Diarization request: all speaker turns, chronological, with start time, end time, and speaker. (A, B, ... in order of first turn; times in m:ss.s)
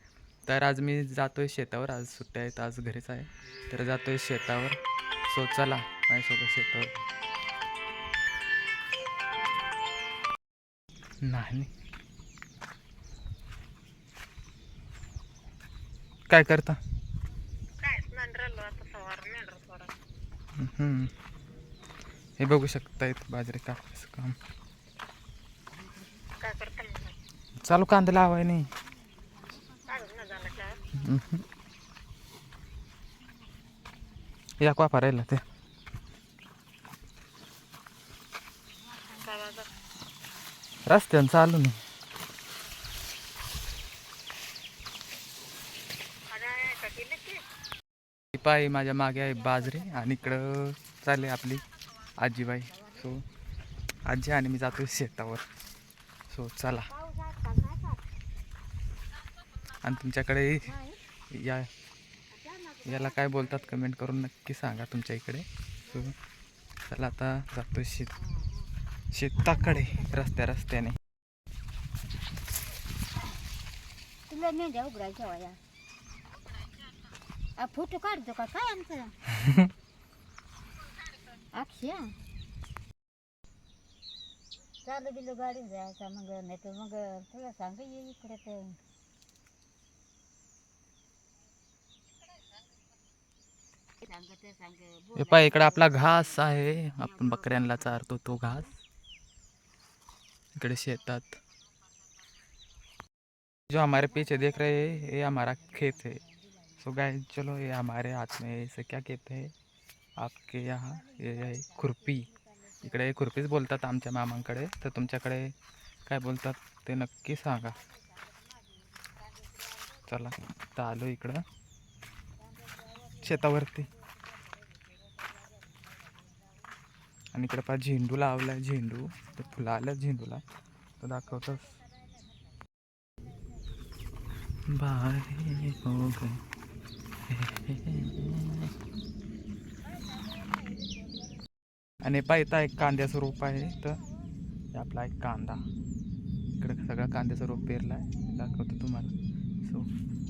0:00.5-0:06.9 A
0:11.2-0:11.7 A
0:16.3-0:16.8 A
0:17.8-0:19.9 B
0:20.6-0:21.1 A
0:22.4-0:24.4 A
0:26.4-0:27.1 B
0:27.6-0:28.7 A
0:29.9-0:30.8 B
0:31.0-0:31.4 A
0:34.6-0:35.4 A
0:39.1-0:39.7 B
0:40.9-0:41.8 A
0:46.3-0:47.4 B
0:48.3-0:51.6 A
0:52.2-0:53.2 A
0:54.0-0:55.4 A
0:56.3-0:56.9 A
0:57.1-0:57.6 C
0:59.8-1:00.7 A
1:01.3-1:01.7 A
1:02.4-1:02.8 C
1:02.8-1:06.2 A
1:06.9-1:08.2 A
1:09.1-1:11.0 A
1:14.3-1:15.6 C
1:17.6-1:19.2 C
1:19.4-1:19.7 A
1:21.5-1:22.1 C
1:24.8-1:28.8 C
1:34.0-1:36.0 C
1:35.2-1:38.8 A
1:40.6-1:41.4 A
1:43.7-1:46.2 A
1:46.8-1:49.5 A
1:50.2-1:55.5 A
1:56.1-1:57.8 A
2:00.1-2:01.4 A
2:03.2-2:03.9 A
2:07.3-2:10.4 A
2:11.0-2:11.8 A
2:14.7-2:16.4 A
2:17.3-2:18.7 A
2:22.0-2:24.0 A
2:24.7-2:25.6 A
2:26.6-2:29.9 A